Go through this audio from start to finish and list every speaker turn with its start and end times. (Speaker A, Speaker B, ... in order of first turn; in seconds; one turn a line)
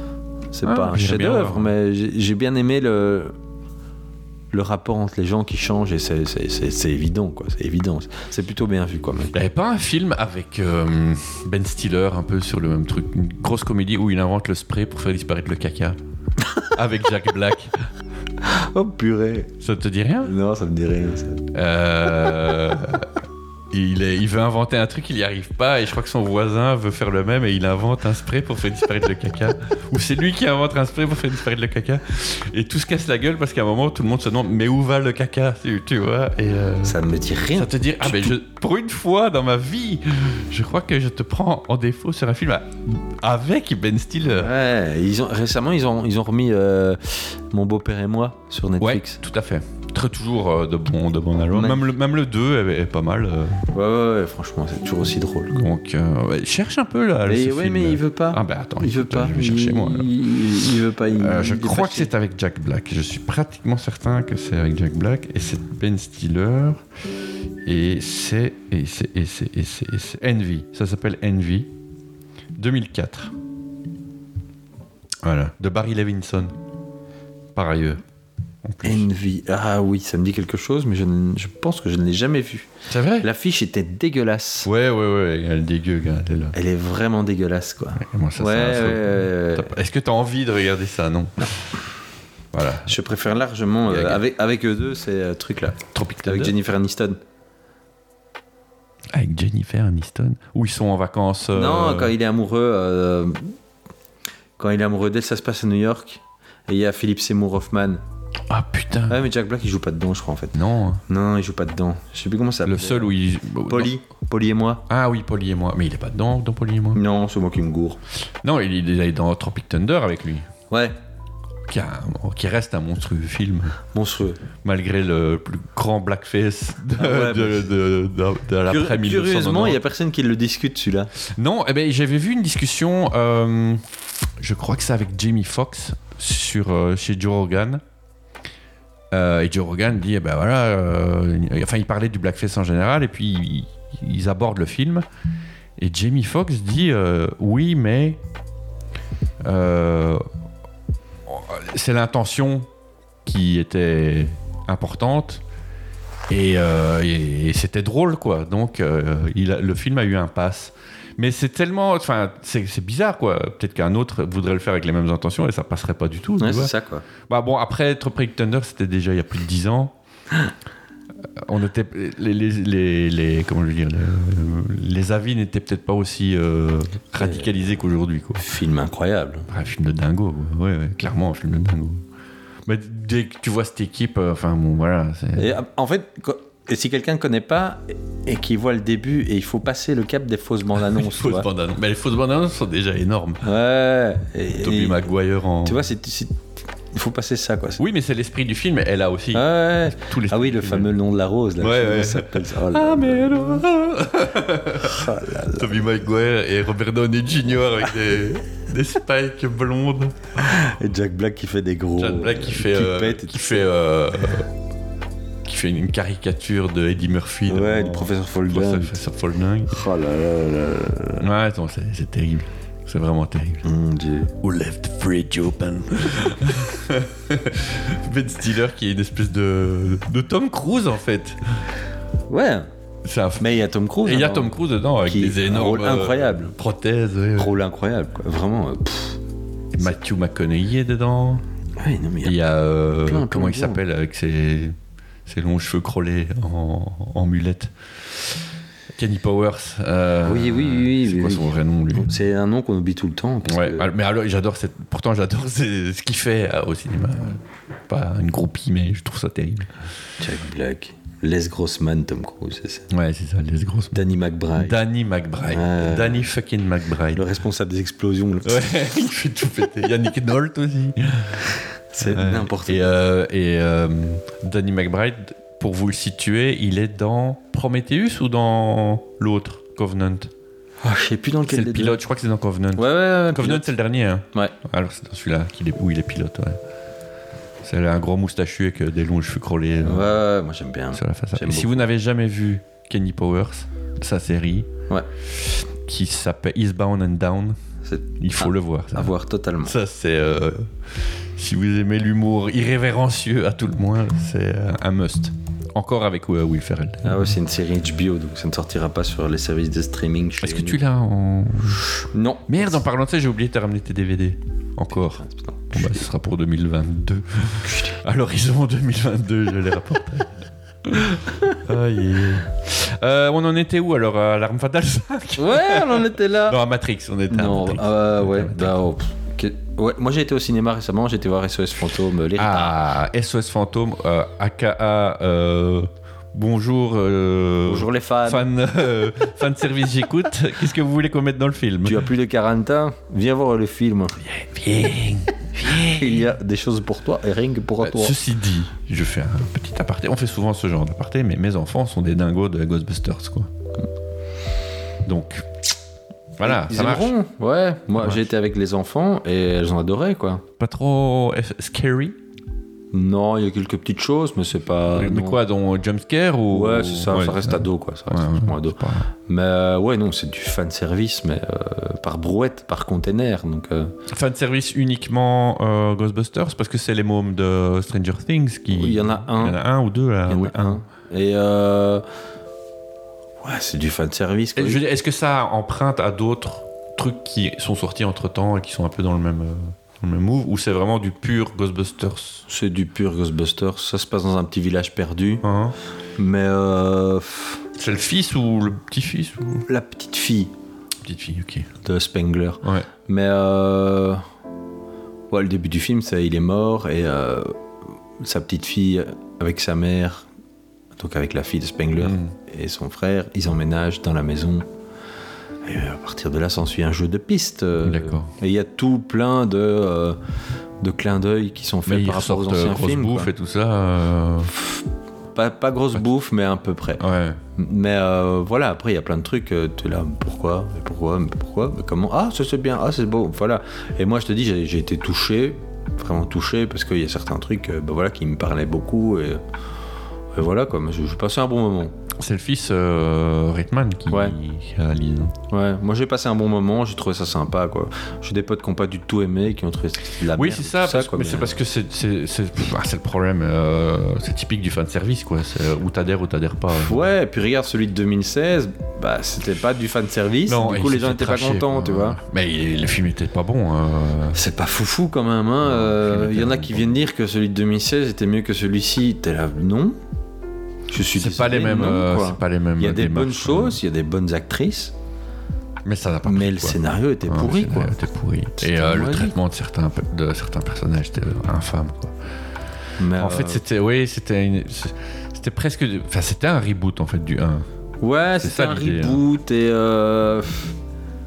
Speaker A: 0.5-3.3
Speaker B: 0.6-1.7
Speaker A: 4.5-9.3
Speaker B: 9.3-16.0
Speaker B: 16.7-17.7
Speaker A: 18.4-19.5
Speaker B: 19.6-20.3
Speaker A: 20.2-21.4
Speaker B: 21.5-23.1
Speaker B: 23.7-37.0
Speaker A: 36.8-38.4
Speaker B: 37.5-44.5
Speaker A: 44.3-49.2
Speaker B: 48.8-53.6
Speaker A: 51.5-51.8
Speaker A: 53.7-55.6
Speaker B: 55.5-60.1
Speaker A: 57.2-62.1
Speaker B: 61.1-66.8
Speaker B: 67.6-71.7
Speaker B: 72.5-73.3
Speaker B: 75.2-76.5
Speaker B: 77.5-78.0
Speaker B: 78.6-79.1
Speaker A: 78.8-84.7
Speaker B: 82.9-83.3
Speaker B: 84.6-86.5
Speaker A: 86.5-89.7
Speaker B: 88.0-91.5
Speaker B: 92.5-93.0
Speaker A: 92.8-97.2
Speaker B: 93.9-94.2
Speaker B: 95.9-96.5
Speaker B: 99.1-102.1
Speaker A: 101.5-103.5
Speaker A: 104.6-108.0
Speaker B: 108.5-109.2
Speaker A: 109.1-113.1
Speaker B: 110.5-111.0
Speaker B: 112.6-113.9
Speaker A: 113.7-114.8
Speaker B: 114.9-117.0
Speaker A: 116.9-118.0
Speaker B: 118.4-120.5
Speaker A: 120.7-120.9
Speaker B: 121.7-123.8
Speaker A: 123.9-124.4
Speaker B: 124.6-129.8
Speaker A: 127.0-127.7
Speaker A: 128.7-131.1
Speaker B: 131.2-133.8
Speaker B: 134.4-137.8
Speaker B: 139.1-145.0
Speaker B: 145.8-148.2
Speaker B: 149.4-150.2
Speaker B: 151.2-152.7
Speaker B: 153.2-155.4
Speaker B: 156.3-166.7
Speaker A: 166.4-167.1
Speaker B: 167.2-169.9
Speaker B: 171.3-178.4
Speaker A: 177.2-177.5
Speaker A: 178.4-179.5
Speaker B: 179.5-182.0
Speaker B: 182.7-185.5
Speaker A: 185.4-191.5
Speaker B: 190.8-193.4
Speaker A: 193.4-195.1
Speaker B: 194.6-195.8
Speaker A: 195.6-197.8
Speaker B: 197.8-200.9
Speaker A: 199.3-203.5
Speaker B: 201.6-210.7
Speaker A: 204.8-205.7
Speaker A: 210.4-213.7
Speaker B: 212.0-214.5
Speaker B: 215.4-219.8
Speaker A: 217.5-219.0
Speaker A: 219.7-221.3
Speaker B: 221.2-223.6
Speaker A: 223.6-224.3
Speaker B: 224.4-231.7
Speaker A: 232.3-232.7
Speaker B: 233.0-237.6
Speaker A: 233.4-236.5
Speaker A: 237.3-239.2
Speaker B: 239.7-241.4
Speaker A: 241.8-242.4
Speaker B: 242.2-248.2
Speaker A: 243.0-243.8
Speaker B: 248.9-252.1
Speaker A: 250.2-253.9
Speaker B: 253.4-259.7
Speaker A: 260.2-262.9
Speaker B: 262.9-264.0
Speaker A: 263.9-264.8
Speaker B: 264.6-267.2
Speaker A: 265.5-266.3
Speaker A: 267.1-268.6
Speaker B: 268.4-280.3
Speaker A: 271.9-272.8
Speaker A: 280.8-282.0
Speaker B: 281.5-286.6
Speaker A: 282.8-283.7
Speaker B: 287.6-290.1
Speaker A: 289.8-291.8
Speaker B: 290.9-294.7
Speaker B: 295.3-297.6
Speaker A: 297.8-299.7
Speaker B: 298.2-307.3
Speaker A: 307.0-310.8
Speaker B: 310.4-328.8
Speaker A: 312.1-312.7
Speaker A: 315.1-316.0
Speaker A: 325.4-326.6
Speaker A: 327.3-332.8
Speaker B: 332.3-342.1
Speaker A: 337.6-338.5
Speaker A: 341.8-344.2
Speaker B: 344.2-346.2
Speaker A: 345.6-348.1
Speaker B: 347.8-353.5
Speaker B: 355.0-355.5
Speaker B: 356.4-357.1
Speaker A: 356.4-360.4
Speaker B: 358.0-358.3
Speaker B: 360.6-362.1
Speaker A: 362.9-365.4
Speaker B: 364.9-369.1
Speaker A: 366.5-373.9
Speaker B: 374.1-380.8
Speaker A: 378.7-379.6
Speaker A: 380.3-382.0
Speaker A: 383.4-384.8
Speaker B: 384.6-392.4
Speaker A: 392.4-395.4
Speaker B: 395.4-395.8
Speaker A: 396.2-397.6
Speaker B: 397.8-399.6
Speaker A: 399.7-400.5
Speaker B: 401.0-401.7
Speaker A: 401.8-404.2
Speaker A: 405.3-407.6
Speaker A: 408.2-410.3
Speaker A: 411.0-414.7
Speaker B: 412.0-412.3
Speaker A: 415.6-420.2
Speaker B: 417.8-418.3
Speaker A: 420.8-423.3
Speaker B: 421.9-424.5
Speaker A: 425.3-427.0
Speaker B: 427.0-427.4
Speaker A: 427.6-439.4
Speaker A: 440.3-441.9
Speaker B: 442.2-445.3
Speaker A: 444.1-444.4
Speaker A: 445.5-451.6
Speaker B: 450.3-457.1
Speaker A: 456.7-462.2
Speaker B: 460.5-464.4
Speaker A: 464.3-470.0
Speaker B: 465.6-467.0
Speaker A: 470.9-474.9
Speaker B: 471.1-473.8
Speaker B: 475.8-482.1
Speaker A: 476.2-477.9
Speaker A: 478.6-479.4
Speaker A: 483.0-483.6
Speaker B: 483.2-487.6
Speaker A: 488.0-490.7
Speaker B: 488.4-489.2